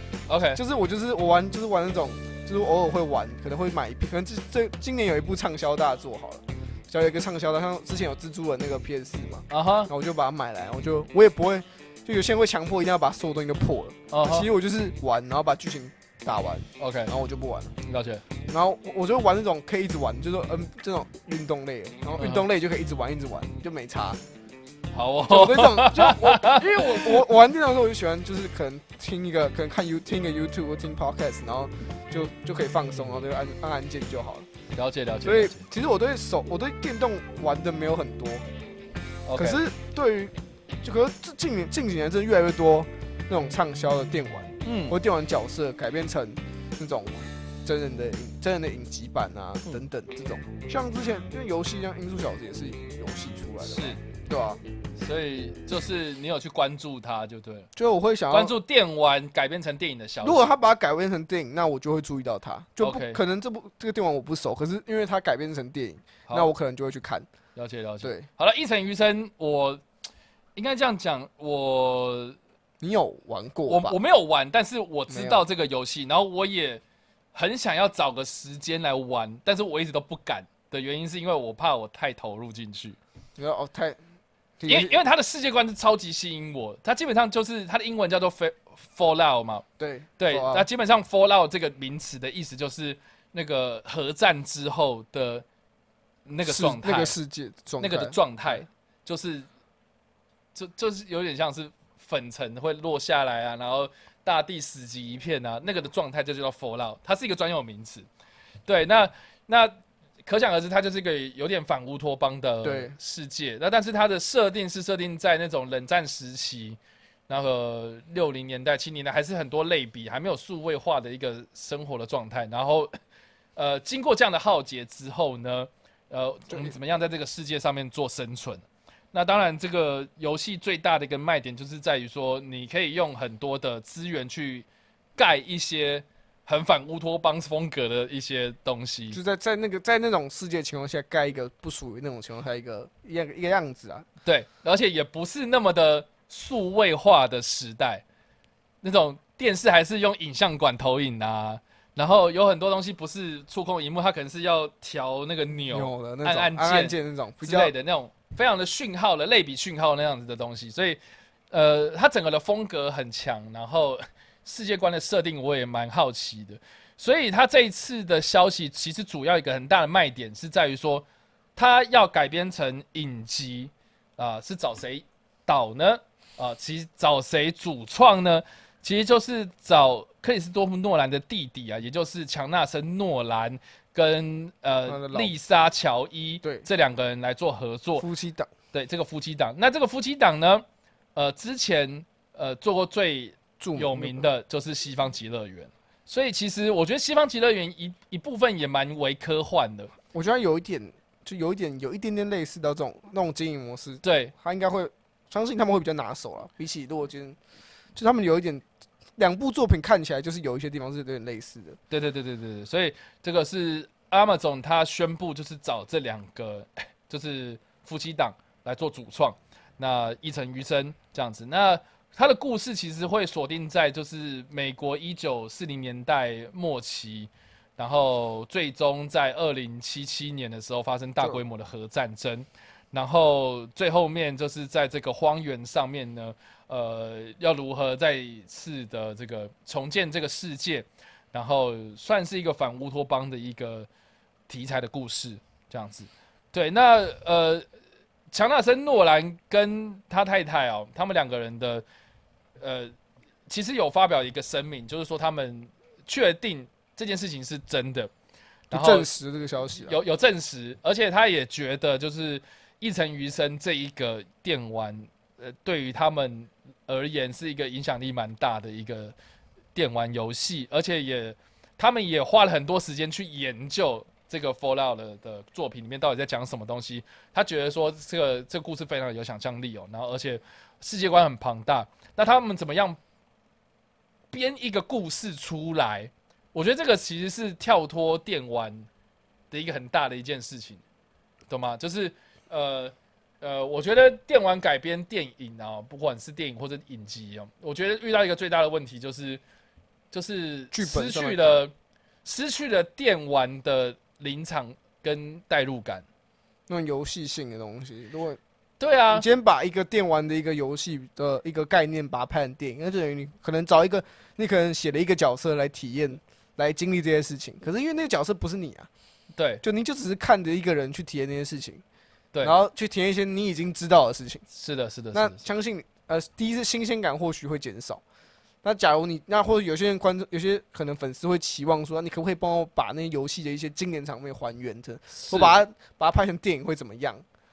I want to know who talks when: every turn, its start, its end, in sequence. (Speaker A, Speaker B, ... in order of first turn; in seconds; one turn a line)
Speaker A: 0.3-0.6
Speaker B: 0.5-17.8
Speaker A: 9.5-9.9
Speaker A: 14.1-14.5
Speaker A: 16.8-17.1
Speaker A: 17.8-18.2
Speaker B: 18.5-24.2
Speaker A: 22.2-22.4
Speaker A: 24.9-27.2
Speaker B: 25.2-34.5
Speaker A: 34.7-35.7
Speaker B: 35.2-38.4
Speaker A: 39.2-39.6
Speaker B: 39.3-54.6
Speaker A: 44.6-45.0
Speaker A: 53.6-54.0
Speaker A: 55.0-57.7
Speaker B: 57.8-58.5
Speaker A: 58.3-60.5
Speaker B: 60.2-67.3
Speaker A: 62.8-63.2
Speaker A: 67.5-69.8
Speaker B: 68.0-68.3
Speaker A: 70.5-72.4
Speaker B: 72.8-74.0
Speaker A: 73.7-76.8
Speaker B: 75.1-75.4
Speaker A: 77.3-83.0
Speaker B: 83.4-84.0
Speaker B: 84.6-85.0
Speaker A: 84.7-89.6
Speaker B: 89.8-90.7
Speaker A: 90.2-95.4
Speaker A: 96.3-97.2
Speaker B: 96.4-98.2
Speaker A: 97.8-99.5
Speaker A: 100.5-108.1
Speaker A: 108.7-122.9
Speaker B: 112.6-113.0
Speaker A: 123.5-139.2
Speaker B: 126.5-126.7
Speaker B: 139.1-144.1
Speaker A: 144.2-148.0
Speaker A: 148.8-161.0
Speaker B: 155.7-157.7
Speaker A: 161.5-188.0
Speaker B: 184.9-185.3
Speaker B: 188.0-188.5
Speaker A: 188.7-190.6
Speaker A: 191.2-199.9
Speaker B: 193.6-194.2
Speaker B: 200.1-207.4
Speaker A: 204.0-204.3
Speaker B: 207.9-208.6
Speaker B: 209.2-211.8
Speaker A: 211.9-243.9
Speaker A: 244.5-247.7
Speaker A: 248.3-251.8
Speaker A: 252.6-252.9
Speaker A: 253.5-258.1
Speaker A: 258.7-259.1
Speaker B: 258.7-260.0
Speaker A: 259.8-269.1
Speaker A: 269.7-283.0
Speaker A: 284.3-288.9
Speaker A: 289.5-290.8
Speaker A: 291.5-299.4
Speaker A: 300.1-301.7
Speaker B: 300.7-301.6
Speaker A: 302.2-306.0
Speaker B: 306.7-308.4
Speaker A: 308.8-309.2
Speaker B: 309.1-318.9
Speaker A: 319.4-319.6
Speaker B: 319.6-321.8
Speaker B: 322.4-324.4
Speaker A: 324.5-325.4
Speaker B: 325.1-328.0
Speaker B: 328.6-337.2
Speaker A: 335.1-335.6